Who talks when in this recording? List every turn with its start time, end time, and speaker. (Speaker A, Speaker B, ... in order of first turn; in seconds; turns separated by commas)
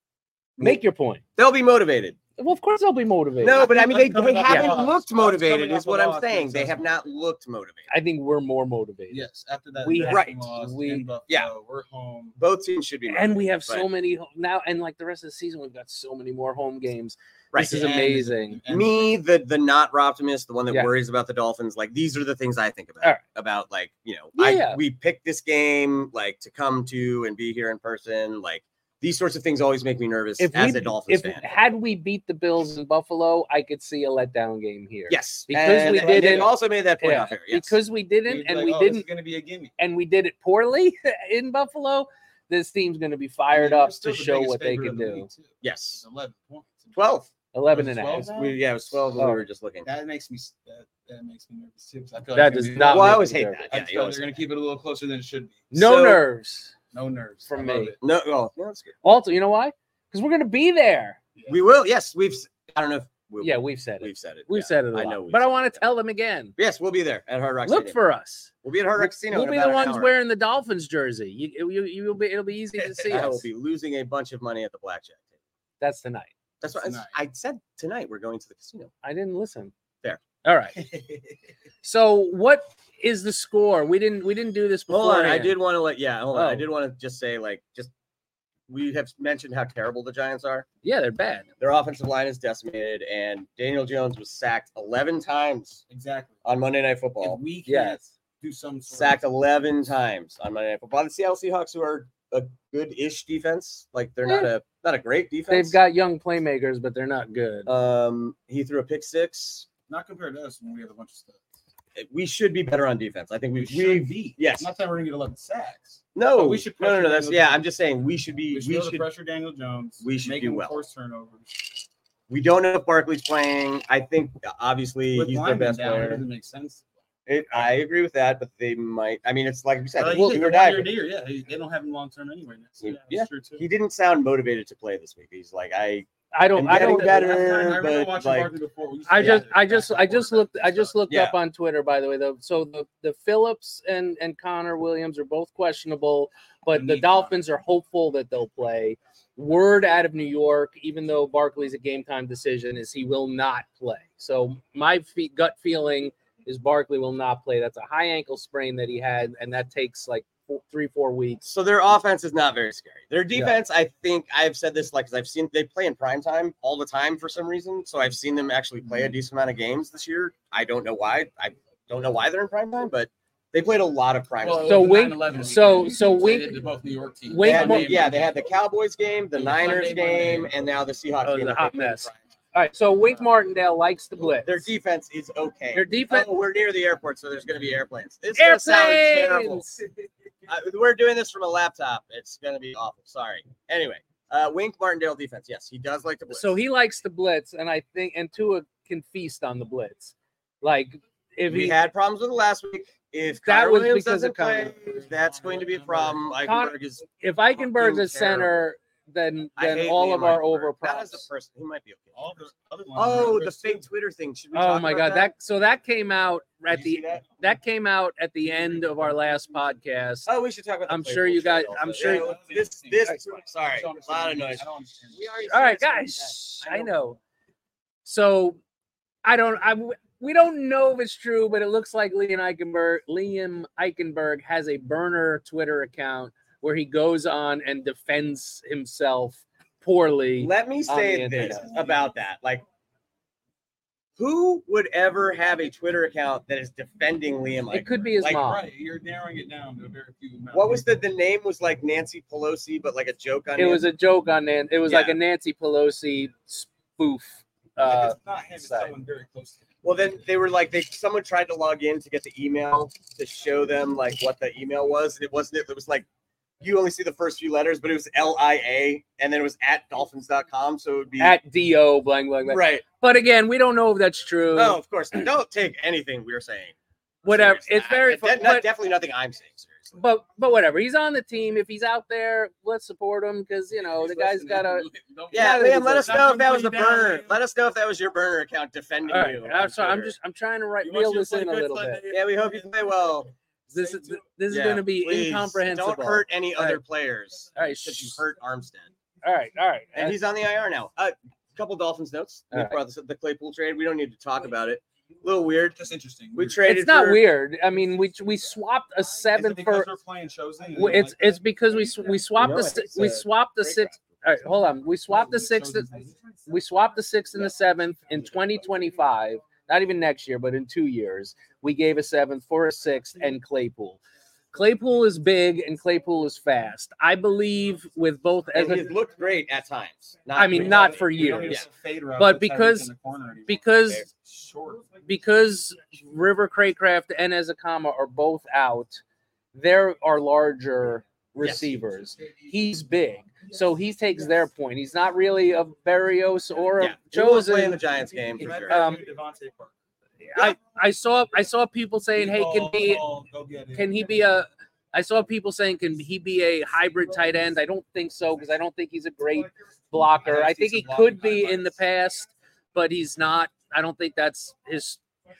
Speaker A: 0.6-1.2, Speaker B: 1.4-2.2, Speaker A: 2.4-3.6, Speaker B: 3.4-7.9, Speaker C: 3.5-6.8, Speaker A: 7.9-9.2, Speaker C: 9.1-12.4, Speaker A: 9.8-11.1, Speaker B: 10.1-10.4, Speaker B: 12.4-13.9, Speaker A: 13.1-18.6, Speaker B: 17.5-17.8, Speaker C: 17.6-19.1, Speaker B: 18.7-31.5, Speaker A: 24.4-24.8, Speaker A: 30.4-39.0, Speaker B: 35.1-37.8, Speaker C: 35.7-36.5, Speaker C: 38.2-39.7, Speaker A: 39.8-45.3, Speaker C: 43.5-47.0, Speaker B: 45.6-46.0, Speaker B: 46.9-47.3, Speaker A: 47.5-48.3, Speaker C: 47.7-48.6, Speaker B: 48.3-49.9, Speaker A: 49.2-49.4, Speaker C: 49.8-56.1, Speaker A: 52.4-53.6, Speaker B: 52.8-54.3, Speaker A: 55.7-56.7, Speaker B: 55.8-56.2, Speaker C: 56.9-58.0, Speaker A: 57.5-57.9, Speaker B: 58.0-58.9, Speaker A: 59.0-61.2, Speaker B: 61.5-65.8, Speaker A: 63.4-66.5, Speaker B: 66.6-68.0, Speaker A: 67.7-73.4, Speaker B: 68.6-70.1, Speaker B: 72.8-75.3, Speaker A: 75.8-76.3, Speaker B: 76.6-78.9, Speaker C: 76.7-77.1, Speaker A: 79.0-79.7, Speaker A: 80.4-80.8, Speaker C: 80.8-81.4, Speaker A: 81.8-85.5, Speaker B: 84.9-87.9, Speaker A: 86.3-86.6, Speaker B: 88.7-90.7, Speaker A: 90.8-91.5, Speaker B: 91.6-95.8, Speaker C: 95.9-96.4, Speaker B: 96.4-97.4, Speaker C: 97.2-99.2, Speaker A: 97.7-98.0, Speaker B: 98.9-105.8, Speaker A: 105.5-107.7, Speaker B: 107.7-109.7, Speaker C: 109.9-111.4, Speaker B: 112.0-114.7, Speaker C: 113.6-117.6, Speaker B: 116.1-119.0, Speaker C: 118.5-121.7, Speaker B: 120.0-120.7, Speaker B: 122.3-126.2, Speaker C: 125.1-126.8, Speaker B: 127.3-130.9, Speaker C: 129.9-133.6, Speaker B: 132.8-138.5, Speaker A: 136.3-137.2, Speaker C: 136.7-140.9, Speaker A: 139.1-161.4, Speaker B: 141.1-141.3, Speaker C: 146.7-147.3, Speaker B: 161.4-175.0, Speaker C: 174.4-178.4, Speaker A: 174.6-176.6, Speaker A: 177.3-178.1, Speaker B: 177.4-182.1, Speaker C: 179.3-180.5, Speaker A: 181.2-184.6, Speaker B: 184.4-189.6, Speaker A: 185.7-186.3, Speaker A: 188.3-189.7, Speaker B: 190.5-196.6, Speaker A: 196.3-201.8, Speaker B: 201.5-208.5, Speaker A: 203.4-204.7, Speaker C: 204.8-206.3, Speaker A: 206.4-211.2, Speaker B: 209.6-212.1, Speaker C: 212.1-213.8, Speaker B: 212.9-215.3, Speaker A: 214.5-220.3, Speaker B: 216.7-217.2, Speaker B: 220.2-226.9, Speaker A: 220.9-222.3, Speaker C: 222.0-223.2, Speaker C: 223.7-225.3, Speaker A: 225.5-227.2, Speaker A: 228.0-228.6, Speaker A: 229.2-241.7, Speaker B: 240.4-242.6, Speaker B: 244.2-248.4, Speaker A: 247.7-248.6, Speaker C: 248.3-250.9, Speaker B: 250.5-253.8, Speaker A: 253.6-258.9, Speaker B: 254.9-255.2, Speaker C: 257.8-259.6, Speaker B: 259.8-266.1, Speaker B: 266.6-271.4, Speaker A: 271.2-274.8, Speaker B: 272.5-272.8, Speaker B: 274.5-280.0, Speaker A: 277.2-278.6, Speaker A: 280.0-286.0, Speaker C: 283.8-287.4, Speaker B: 285.3-290.1, Speaker A: 289.1-292.0, Speaker C: 290.8-292.6, Speaker B: 292.1-293.3, Speaker A: 293.7-296.8, Speaker C: 293.7-294.2, Speaker B: 294.5-298.9, Speaker A: 297.6-298.2, Speaker A: 299.2-300.2, Speaker B: 299.9-305.8, Speaker A: 302.5-302.8, Speaker C: 305.8-306.6, Speaker B: 306.3-307.2, Speaker A: 306.6-309.9, Speaker C: 309.3-311.3, Speaker A: 310.8-315.9, Speaker B: 312.4-313.9, Speaker C: 315.2-316.2, Speaker A: 316.5-324.0, Speaker A: 324.5-328.9, Speaker B: 328.5-331.6, Speaker A: 330.3-331.6, Speaker C: 330.5-333.6, Speaker A: 332.2-332.9, Speaker A: 333.5-334.0, Speaker C: 334.1-334.9, Speaker A: 335.1-339.0, Speaker A: 339.5-347.8, Speaker B: 341.4-341.7, Speaker B: 346.8-348.8, Speaker C: 348.4-349.7, Speaker A: 348.5-349.0, Speaker A: 350.3-353.0, Speaker C: 352.1-354.0, Speaker A: 353.8-365.0, Speaker C: 360.2-361.8